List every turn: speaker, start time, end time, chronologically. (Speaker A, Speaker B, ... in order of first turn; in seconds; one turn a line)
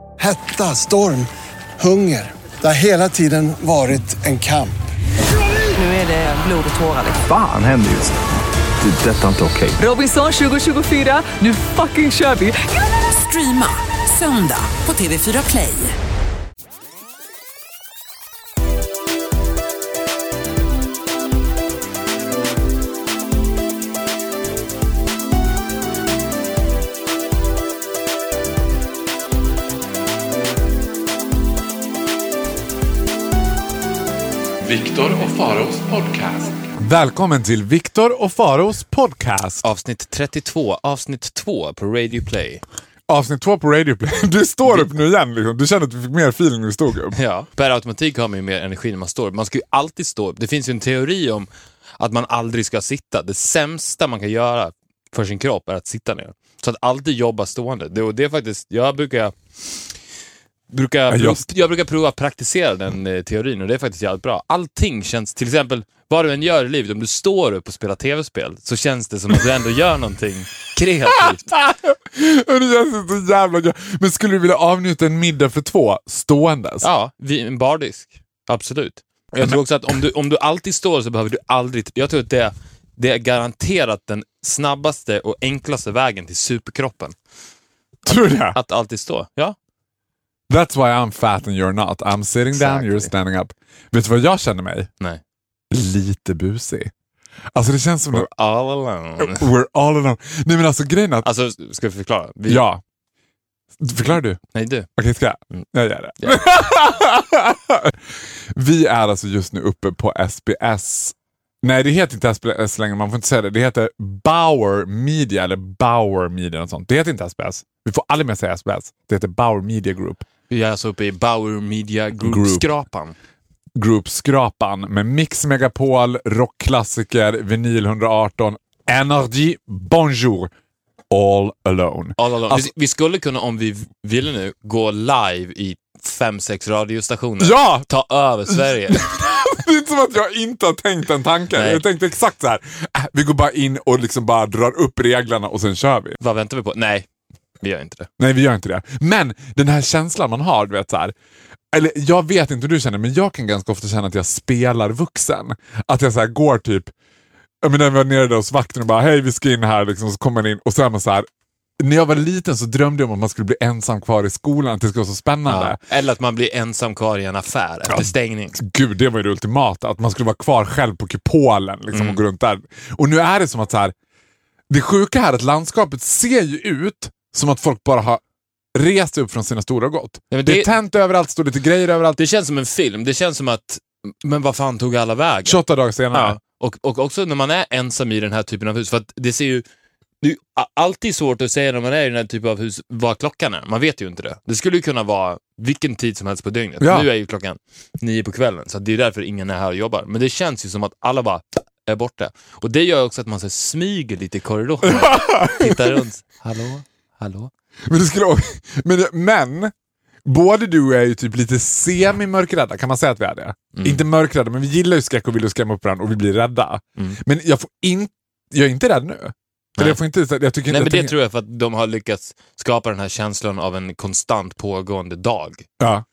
Speaker A: 0.2-1.3
Speaker A: 1.8-4.8
Speaker B: 5.7-7.2
Speaker C: 7.2-8.2
Speaker C: 8.8-9.8
Speaker B: 9.8-15.9
Speaker D: 36.8-39.6
Speaker E: 39.6-42.6
Speaker D: 43.1-47.1
Speaker E: 47.1-51.5
Speaker E: 52.0-59.3
Speaker E: 60.7-71.5
Speaker D: 61.1-61.4
Speaker D: 71.2-76.9
Speaker E: 76.8-87.1
Speaker D: 88.0-88.6
Speaker E: 88.1-89.5
Speaker D: 90.5-94.9
Speaker E: 92.5-93.1
Speaker D: 95.7-96.9
Speaker D: 97.5-98.3
Speaker E: 98.1-99.5
Speaker D: 99.2-101.2
Speaker E: 101.2-102.6
Speaker D: 102.5-102.8
Speaker D: 103.8-104.4
Speaker E: 104.5-104.9
Speaker D: 105.0-108.0
Speaker D: 108.5-120.2
Speaker E: 120.5-123.1
Speaker D: 122.2-122.7
Speaker D: 123.7-130.5
Speaker D: 131.1-132.7
Speaker E: 132.2-139.1
Speaker D: 137.4-137.9
Speaker D: 138.5-146.2
Speaker E: 141.5-141.8
Speaker E: 146.2-147.1
Speaker E: 147.6-148.1
Speaker D: 148.2-151.1
Speaker D: 151.7-156.9
Speaker D: 157.6-161.3
Speaker D: 161.8-165.8
Speaker E: 165.5-168.6
Speaker D: 167.9-173.9
Speaker E: 171.9-172.2
Speaker D: 174.7-178.2
Speaker D: 178.7-182.2
Speaker E: 180.3-180.7
Speaker E: 182.2-185.6
Speaker D: 185.4-186.4
Speaker E: 186.1-189.6
Speaker E: 190.2-207.5
Speaker D: 196.8-197.1
Speaker D: 204.8-206.0
Speaker D: 207.9-209.7
Speaker D: 210.2-221.1
Speaker E: 213.7-214.0
Speaker E: 220.7-225.7
Speaker D: 225.8-226.0